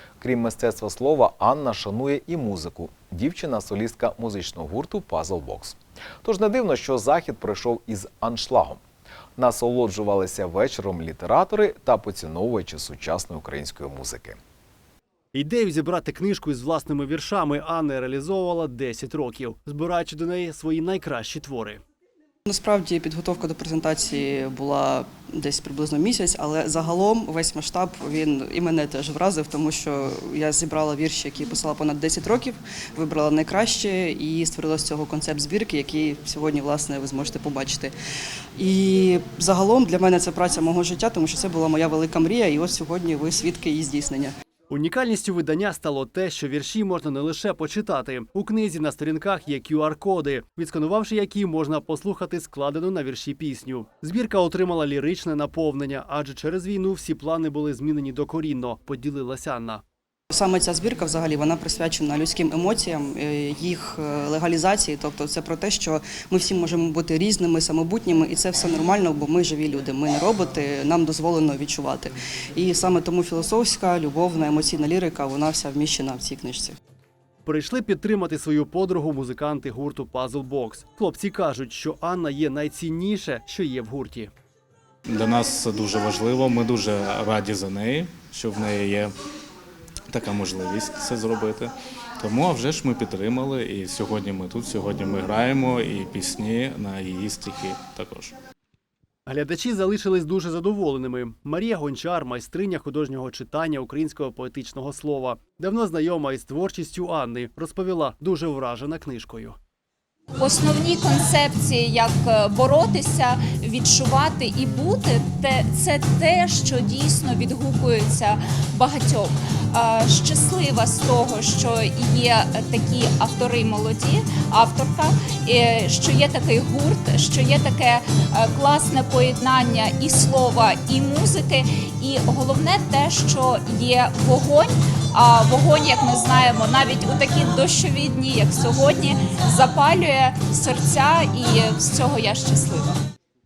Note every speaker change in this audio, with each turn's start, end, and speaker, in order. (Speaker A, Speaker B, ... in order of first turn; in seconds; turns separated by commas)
Speaker A: 0.2-8.8, Speaker A: 9.4-14.4, Speaker B: 15.3-21.8, Speaker C: 22.4-37.9, Speaker C: 38.6-44.3, Speaker B: 44.7-59.8, Speaker C: 60.3-76.8, Speaker B: 77.4-84.3, Speaker D: 85.1-89.1, Speaker D: 90.1-98.3, Speaker B: 99.3-109.6, Speaker E: 110.4-143.0